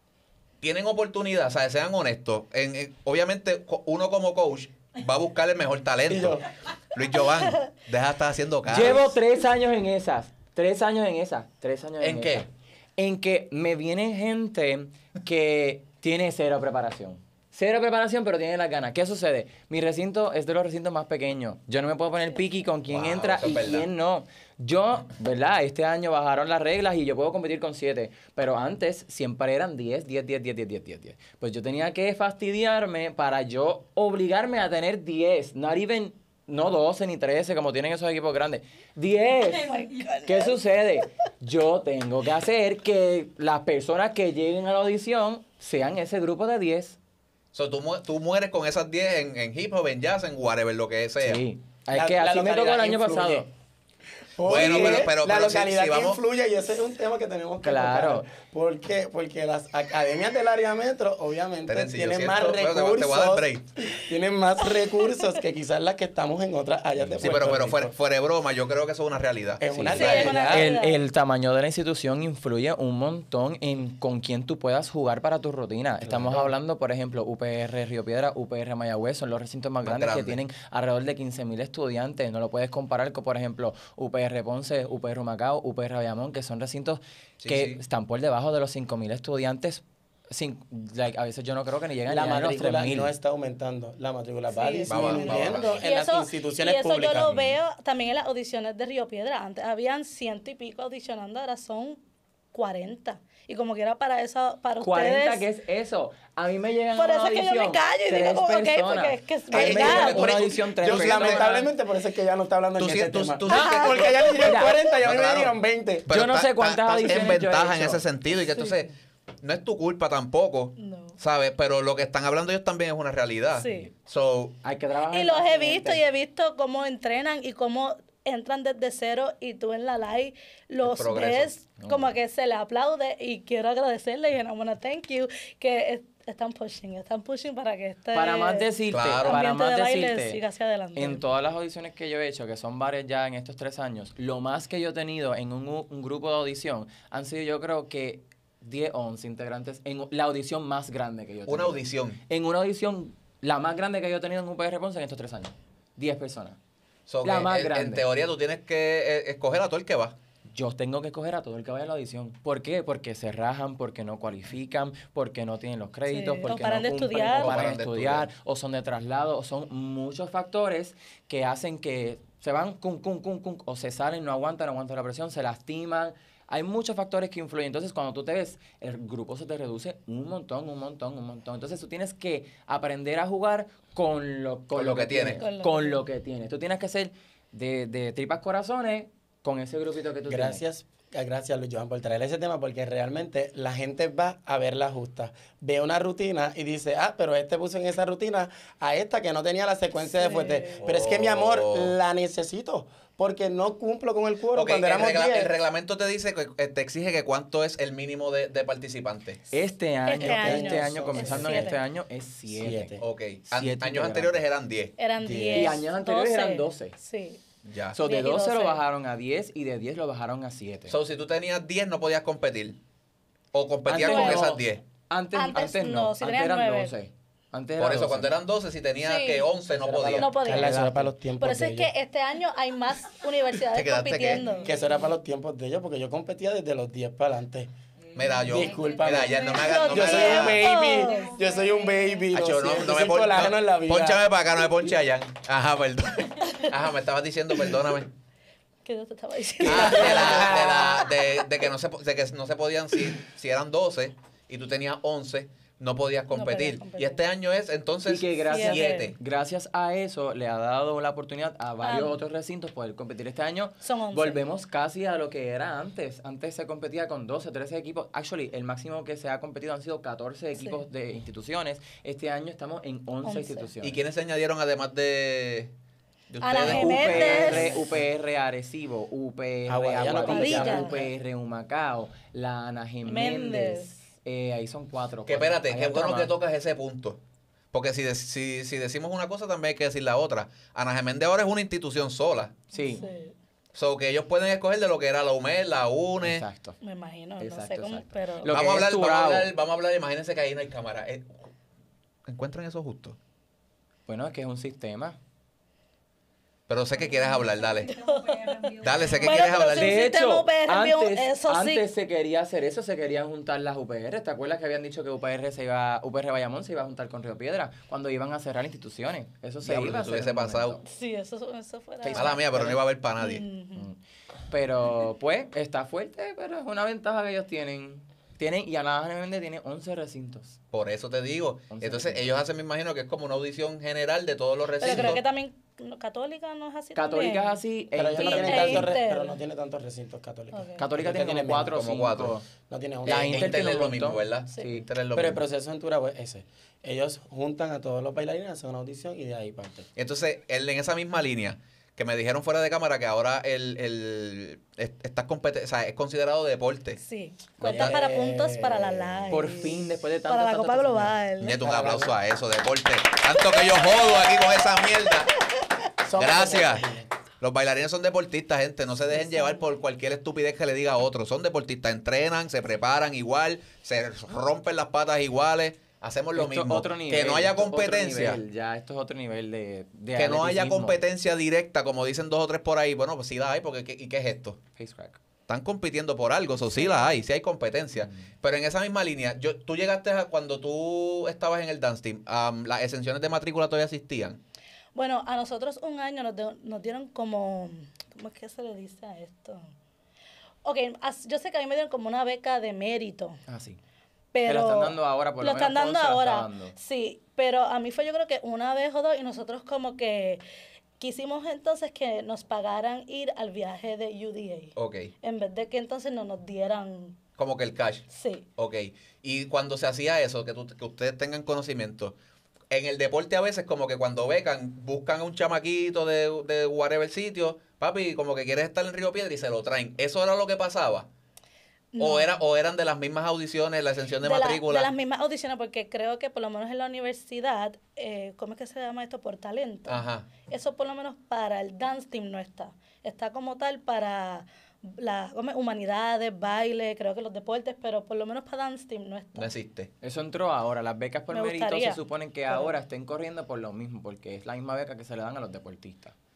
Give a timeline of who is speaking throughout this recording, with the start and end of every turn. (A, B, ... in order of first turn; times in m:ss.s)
0:00.6-0:09.1 A
0:06.1-0:06.4 B
0:08.7-0:47.0 C
0:12.0-0:12.5 A
0:22.9-0:23.9 A
0:39.5-0:40.6 D
0:47.5-0:51.4 A
0:51.2-0:53.5 C
0:51.9-0:53.5 B
0:54.4-1:07.9 B
0:54.4-0:56.2 A
0:54.5-0:55.1 C
0:57.6-0:58.3 C
1:01.7-1:03.6 A
1:05.0-1:05.4 D
1:07.2-1:10.4 A
1:09.6-1:10.8 B
1:09.7-1:33.1 C
1:09.9-1:11.0 D
1:16.0-1:16.5 B
1:19.8-1:20.4 A
1:27.4-1:27.8 A
1:32.1-1:37.4 B
1:34.5-1:42.0 D
1:34.9-1:35.8 A
1:42.5-1:45.4 D
1:44.8-1:51.7 C
1:47.0-1:50.3 D
1:49.5-1:56.1 B
1:49.5-1:51.4 A
1:52.8-1:55.5 A
1:53.5-1:54.3 D
1:54.4-1:54.8 C
1:56.1-1:58.9 A
1:56.1-1:58.0 C
1:59.4-2:04.6 A
2:00.8-2:01.2 D
2:03.5-2:03.9 D
2:04.6-2:06.0 C
2:05.1-2:21.2 D
2:10.8-2:11.5 A
2:11.8-2:12.1 C
2:18.1-2:20.4 C
2:18.9-2:19.4 A
2:21.0-2:36.6 C
2:31.5-2:32.2 A
2:37.1-2:40.2 A
2:37.2-2:38.1 C
2:40.5-3:10.6 C
2:46.1-2:47.7 D
2:47.4-2:48.3 A
3:04.7-3:05.4 A
3:05.4-3:06.0 D
3:10.3-3:25.5 B
3:20.0-3:20.9 D
3:20.8-3:21.9 A
3:24.5-3:29.4 A
3:29.5-3:33.0 C
3:30.1-3:31.8 D
3:30.2-3:31.8 B
3:32.5-3:33.0 B
3:33.0-3:35.0 A
3:33.5-3:34.4 C
3:35.0-3:37.4 D
3:35.2-3:35.8 B
3:35.5-3:37.0 C
3:37.6-3:38.0 A
3:37.9-3:41.0 C
3:37.9-3:38.8 D
3:40.9-3:42.8 A
3:43.5-3:44.8 A
3:43.9-3:48.3 C
3:44.0-3:44.5 D
3:45.3-3:46.9 D
3:47.8-3:50.4 A
3:49.0-3:49.5 D
3:49.8-3:51.9 B
3:50.2-3:54.7 D
3:50.4-3:51.1 C
3:53.7-3:54.4 A
3:54.6-3:57.7 B
3:58.2-4:00.7 A
3:58.4-4:04.2 B
3:59.3-4:02.2 D
4:02.3-4:08.1 A
4:08.8-4:11.5 D
4:09.6-4:19.2 A
4:09.6-4:11.0 B
4:16.3-4:17.2 D
4:18.0-4:34.0 C
4:18.5-4:19.1 D
4:21.8-4:22.2 D
4:23.8-4:24.4 D
4:30.6-4:30.8 D
4:33.2-4:33.7 D
4:33.8-4:35.7 A
4:36.3-4:37.9 A
4:36.4-4:37.8 D
4:36.6-4:46.3 C
4:39.7-4:41.1 B
4:40.2-4:41.0 D
4:43.1-4:44.0 D
4:45.3-4:47.2 A
4:47.7-4:52.6 A
4:52.7-4:53.1 C
4:52.8-4:53.4 D
4:53.7-4:56.5 A
4:56.2-4:56.8 C
4:56.8-4:58.5 D
4:57.4-4:59.5 C
4:58.5-5:01.3 A
5:02.3-5:03.2 A
5:04.1-5:05.2 C
5:06.7-5:07.9 A
5:07.0-5:11.8 D
5:08.8-5:10.0 A
5:09.3-5:20.8 C
5:19.6-5:20.8 A
5:20.8-5:23.9 D
5:22.0-5:22.8 C
5:22.1-5:23.5 A
5:24.5-5:30.6 C
5:30.7-5:35.2 A
5:31.7-5:32.3 C
5:34.8-5:37.6 D
5:37.0-5:38.9 C
5:38.0-5:41.8 B
5:38.2-5:39.4 D
5:40.5-5:40.8 D
5:40.8-5:42.5 C
5:41.7-5:42.4 A
5:42.7-5:43.6 B
5:43.1-5:44.8 C
5:43.1-5:45.4 A
5:44.5-5:44.8 D
5:45.1-5:49.9 B
5:50.0-5:57.0 A
5:57.0-6:01.6 D
5:57.6-5:59.8 B
5:57.6-5:58.0 A
5:59.3-6:01.2 C
6:01.4-6:05.4 A
6:01.6-6:02.1 B
6:03.6-6:05.1 D
6:06.0-6:07.1 B
6:06.2-6:06.8 A
6:07.4-6:18.4 A
6:09.1-6:09.6 D
6:16.4-6:21.0 C
6:20.2-6:24.6 A
6:24.8-6:25.2 C
6:25.5-6:34.4 A
6:26.8-6:27.1 D
6:35.0-6:39.7 D
6:40.6-6:43.4 D
6:43.5-6:43.8 C
6:44.3-6:50.4 D
6:44.4-6:46.7 C
6:51.0-6:57.2 D
6:54.8-6:55.1 A
6:57.4-7:02.2 A
6:58.1-6:58.4 D
7:02.7-7:11.1 A
7:11.9-7:12.4 D
7:12.0-7:14.9 A
7:14.2-7:29.5 D
7:19.9-7:20.3 A
7:29.4-7:29.9 A
7:30.0-7:36.2 C
7:31.3-7:32.7 D